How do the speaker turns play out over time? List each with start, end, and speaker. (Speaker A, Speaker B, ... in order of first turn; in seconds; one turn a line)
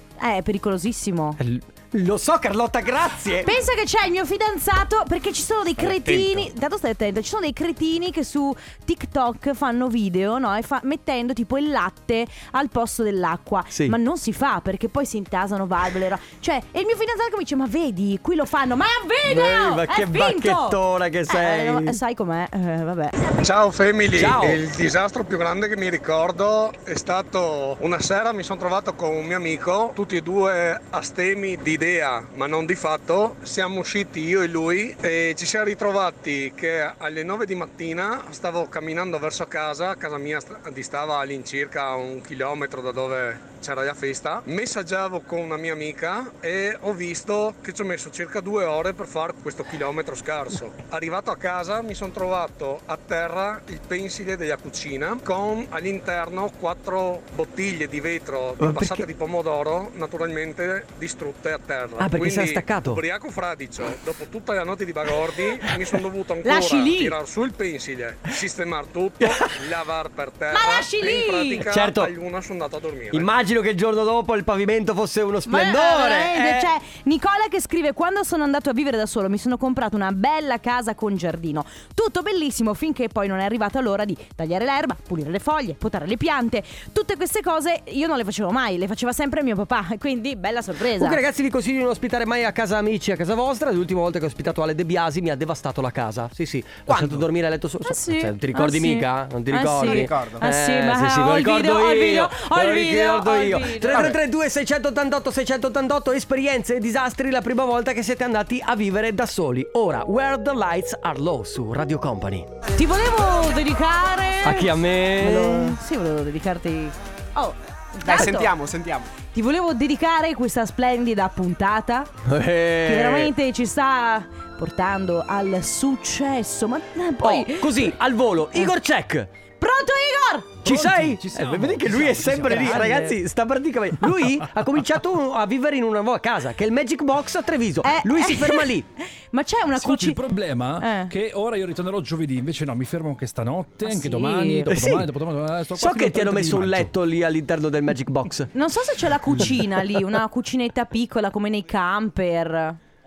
Speaker A: 0.2-1.4
Speaker B: 1.4-3.5
Speaker A: 3.4-23.4
Speaker C: 5.8-6.5
Speaker B: 13.7-14.0
Speaker B: 19.2-22.0
Speaker D: 23.4-73.3
Speaker B: 24.1-24.6
Speaker B: 58.6-59.1
Speaker B: 62.0-63.0
Speaker A: 66.4-67.2
Speaker B: 69.2-69.5
Speaker A: 70.5-71.7
Speaker B: 71.6-72.1
Speaker B: 73.1-76.7
Speaker A: 75.5-91.2
Speaker B: 91.0-112.5
Speaker E: 96.9-97.2
Speaker A: 97.8-104.1
Speaker C: 99.8-100.5
Speaker C: 103.9-104.2
Speaker A: 112.8-118.5
Speaker B: 114.4-115.8
Speaker C: 118.0-119.1
Speaker A: 119.3-122.1
Speaker B: 122.2-123.3
Speaker A: 122.8-127.9
Speaker B: 127.2-129.3
Speaker A: 129.6-130.6
Speaker B: 130.6-138.9
Speaker E: 130.6-133.1
Speaker A: 132.4-133.1
Speaker A: 137.8-138.8
Speaker A: 139.3-140.2
Speaker E: 139.8-146.9
Speaker A: 140.8-141.1
Speaker A: 143.8-144.7
Speaker B: 144.7-145.1
Speaker B: 145.8-148.5
Speaker A: 148.5-152.8